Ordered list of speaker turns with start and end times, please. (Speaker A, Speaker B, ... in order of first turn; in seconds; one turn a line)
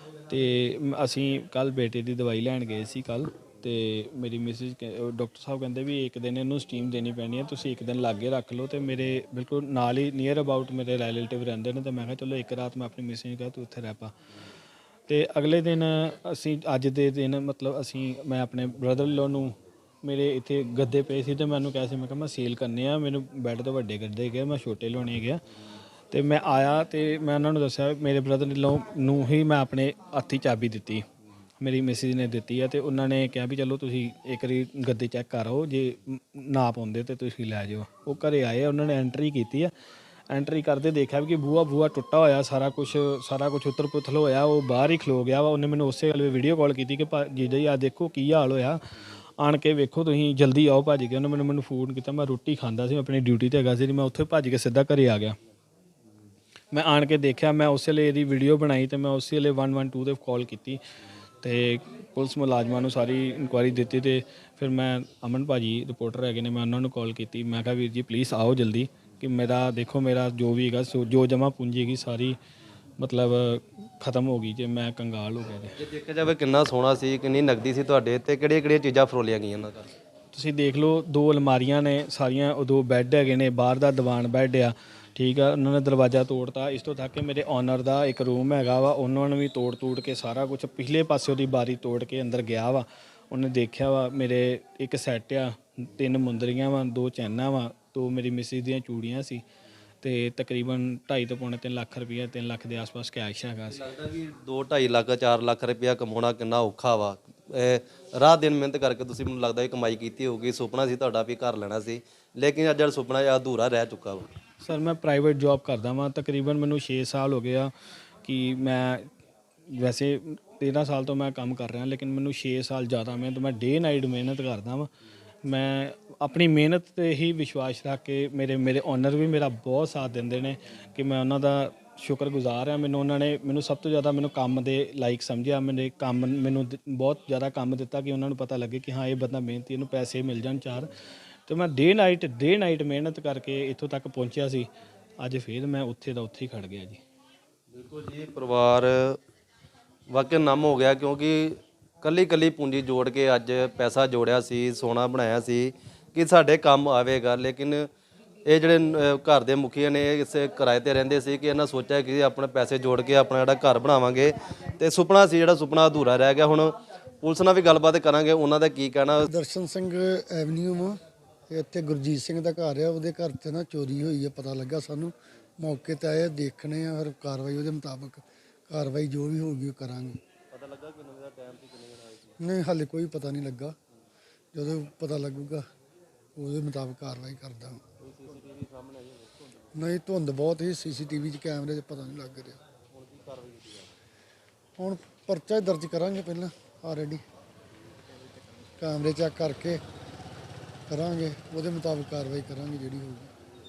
Speaker A: 0.3-14.1
Speaker A: 15.1-25.4
Speaker A: 26.1-31.1
Speaker A: 31.6-39.7
Speaker A: 40.3-48.8
Speaker A: 49.4-55.4
Speaker A: 56.7-60.8
Speaker A: 61.4-72.4
Speaker A: 73.0-75.7
Speaker B: 75.8-79.9
Speaker A: 80.3-99.4
Speaker A: 100.0-103.8
Speaker B: 103.7-114.3
Speaker A: 114.6-117.7
Speaker A: 118.2-119.1
Speaker A: 119.7-124.9
Speaker A: 125.5-140.9
Speaker A: 141.5-147.0
Speaker B: 147.7-149.2
Speaker B: 150.1-157.9
Speaker B: 158.5-169.3
Speaker C: 169.3-171.0
Speaker C: 171.5-180.2
Speaker B: 180.5-182.3
Speaker C: 182.4-183.8
Speaker C: 184.5-185.7
Speaker C: 186.4-187.8
Speaker B: 188.0-189.5
Speaker C: 189.8-192.6
Speaker B: 192.9-193.9
Speaker C: 194.8-197.2
Speaker C: 198.8-199.8
Speaker C: 200.9-203.3